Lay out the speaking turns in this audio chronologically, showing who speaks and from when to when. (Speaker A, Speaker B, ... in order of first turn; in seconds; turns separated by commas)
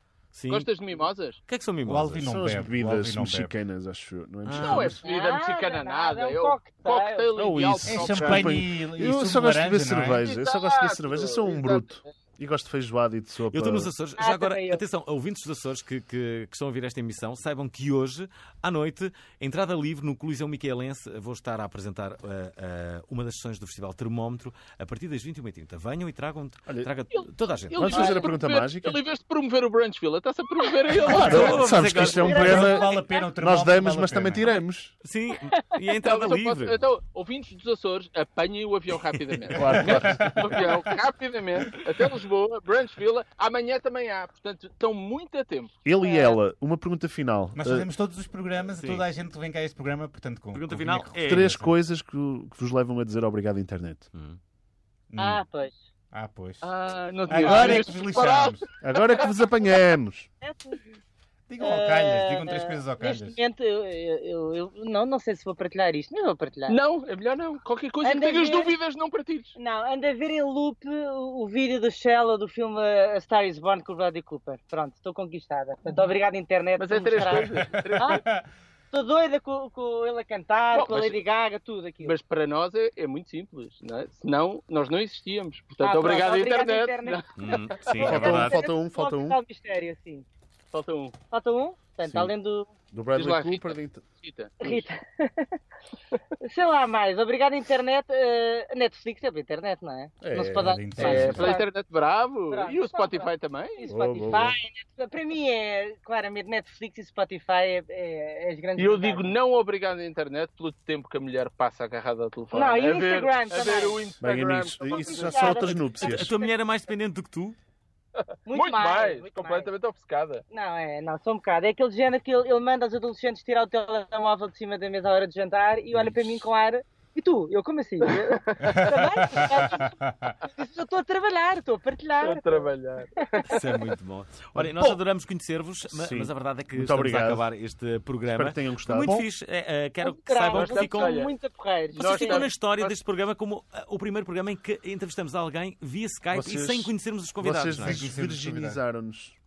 Speaker A: 0.3-0.7, Speaker B: 0.5-1.4, Speaker A: 1.5-2.2, Speaker C: 1.9-3.5, Speaker D: 2.2-5.0, Speaker A: 4.4-5.0, Speaker B: 4.6-8.6, Speaker E: 5.0-7.3, Speaker D: 7.3-13.9, Speaker C: 7.9-10.2, Speaker B: 10.2-12.0, Speaker A: 13.5-28.3, Speaker E: 14.2-14.8, Speaker B: 27.1-32.1, Speaker D: 27.8-29.0, Speaker A: 31.0-32.7, Speaker D: 31.0-34.9, Speaker C: 32.2-34.5, Speaker E: 32.2-33.2, Speaker A: 35.0-36.8, Speaker B: 36.0-45.7, Speaker D: 39.5-40.6, Speaker C: 39.7-41.0, Speaker D: 45.8-47.9, Speaker E: 46.0-46.4, Speaker C: 47.5-51.8, Speaker A: 48.6-49.0, Speaker A: 50.5-51.5, Speaker D: 51.2-54.1, Speaker A: 54.1-54.4, Speaker C: 55.1-55.4, Speaker E: 55.1-55.8, Speaker C: 56.1-56.7, Speaker B: 56.6-58.6, Speaker C: 57.3-58.6, Speaker D: 57.4-57.7, Speaker D: 58.8-60.3, Speaker E: 60.4-60.8, Speaker C: 61.5-63.4, Speaker E: 61.6-66.8, Speaker B: 66.7-69.5, Speaker E: 68.0-68.7, Speaker E: 69.5-78.2, Speaker B: 76.8-78.2, Speaker C: 77.4-78.5, Speaker E: 78.9-82.1, Speaker B: 80.7-81.2, Speaker B: 82.0-88.1, Speaker E: 85.8-87.2, Speaker A: 87.4-88.6, Speaker D: 87.9-89.4, Speaker C: 88.1-88.5, Speaker E: 88.2-90.2, Speaker B: 90.7-91.1, Speaker E: 91.3-92.7, Speaker D: 92.0-92.3, Speaker D: 92.9-94.0, Speaker B: 93.1-94.8, Speaker E: 94.6-95.5, Speaker E: 96.4-101.7, Speaker D: 100.2-101.5, Speaker C: 100.5-101.5, Speaker B: 101.0-103.9, Speaker E: 102.5-109.3, Speaker D: 103.9-104.6, Speaker B: 108.8-115.9, Speaker E: 112.5-114.0, Speaker D: 114.2-116.4, Speaker E: 114.9-115.8, Speaker A: 116.0-117.6, Speaker E: 118.5-119.7, Speaker B: 118.5-120.4, Speaker E: 120.5-132.7, Speaker B: 128.1-129.0, Speaker C: 128.7-130.4, Speaker B: 132.2-133.6, Speaker E: 133.2-133.4, Speaker A: 133.5-141.2, Speaker D: 134.6-135.0, Speaker D: 135.9-137.5, Speaker D: 138.2-139.2, Speaker C: 139.0-139.3, Speaker E: 140.0-142.5, Speaker B: 140.5-141.3, Speaker B: 141.9-142.9, Speaker A: 141.9-148.1, Speaker D: 146.3-149.3, Speaker C: 147.7-148.8